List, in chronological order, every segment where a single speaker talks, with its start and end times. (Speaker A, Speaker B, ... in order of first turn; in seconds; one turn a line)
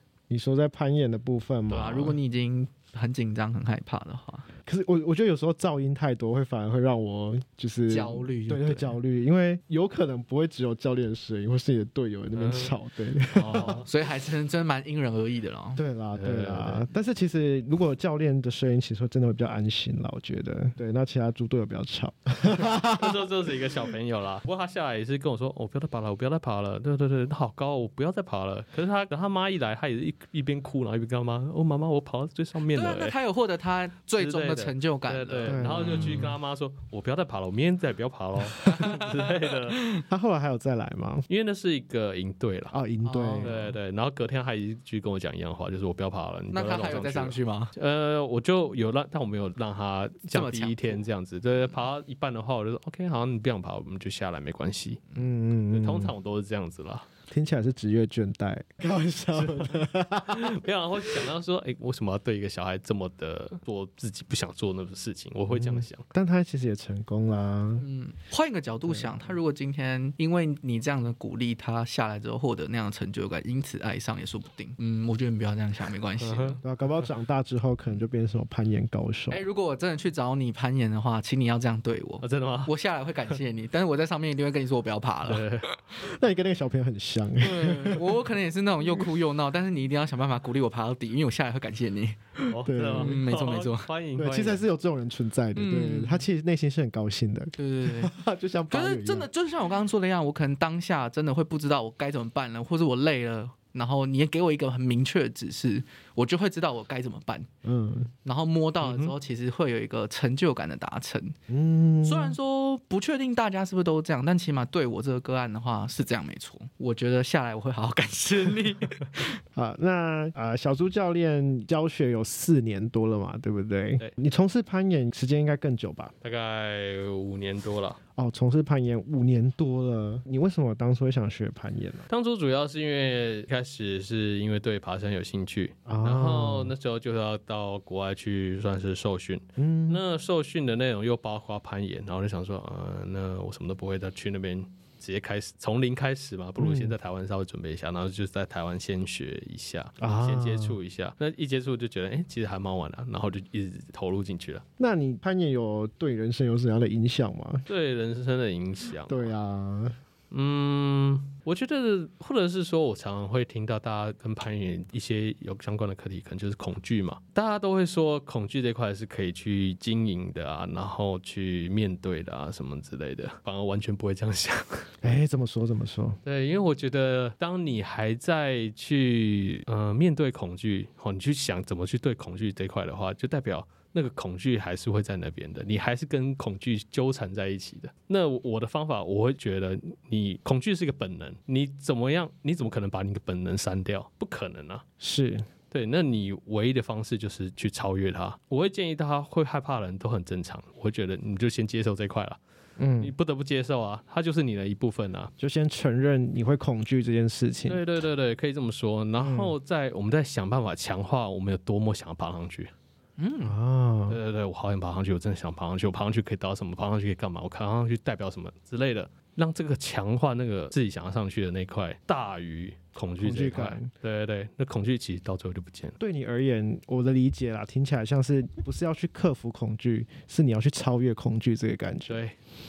Speaker A: 0.3-2.2
Speaker B: 1.7-4.5
Speaker C: 1.7-2.0
Speaker A: 4.7-13.8
Speaker B: 7.9-8.9
Speaker C: 12.3-12.7
Speaker C: 13.3-13.8
Speaker B: 13.5-15.8
Speaker A: 15.8-23.2
Speaker C: 16.1-16.9
Speaker C: 22.5-33.1
Speaker B: 32.7-36.3
Speaker C: 34.1-39.8
Speaker A: 35.4-36.3
Speaker B: 38.6-39.1
Speaker B: 39.7-40.0
Speaker A: 40.1-41.3
Speaker C: 41.3-42.7
Speaker A: 42.7-43.6
Speaker B: 43.0-43.7
Speaker C: 43.4-55.0
Speaker B: 46.5-47.7
Speaker B: 50.3-51.0
Speaker A: 55.1-56.1
Speaker C: 55.7-57.1
Speaker A: 57.3-61.2
Speaker C: 59.3-66.0
Speaker A: 65.5-67.8
Speaker B: 67.8-76.6
Speaker A: 68.8-69.3
Speaker C: 76.2-76.6
Speaker A: 76.6-79.4
Speaker B: 79.3-85.5
Speaker C: 82.2-82.7
Speaker C: 85.2-85.7
Speaker A: 86.0-88.1
Speaker B: 87.4-92.2
Speaker A: 92.4-93.2
Speaker C: 92.5-94.6
Speaker B: 92.9-93.9
Speaker A: 94.2-99.3
Speaker B: 95.5-96.2
Speaker B: 97.6-98.1
Speaker B: 98.7-107.5
Speaker A: 107.6-108.1
Speaker B: 108.2-111.4
Speaker C: 108.8-109.1
Speaker A: 111.5-112.3
Speaker B: 112.0-119.4
Speaker A: 119.5-126.1
Speaker C: 126.2-128.0
Speaker A: 128.2-132.1
Speaker C: 132.1-154.6
Speaker A: 135.9-136.7
Speaker A: 139.6-140.0
Speaker A: 146.6-146.9
Speaker A: 150.0-150.8
Speaker A: 154.8-157.7
Speaker C: 157.7-159.3
Speaker A: 159.1-160.0
Speaker C: 160.3-175.1
Speaker A: 175.0-176.2
Speaker C: 176.2-194.8
Speaker A: 195.0-195.5
Speaker C: 195.7-202.4
Speaker A: 202.8-203.1
Speaker C: 203.0-205.3
Speaker A: 205.4-207.8
Speaker C: 207.7-212.7
Speaker A: 209.2-209.6
Speaker B: 213.2-213.6
Speaker A: 213.4-214.2
Speaker C: 214.1-226.0
Speaker A: 223.2-223.9
Speaker A: 226.0-232.2
Speaker C: 232.1-232.3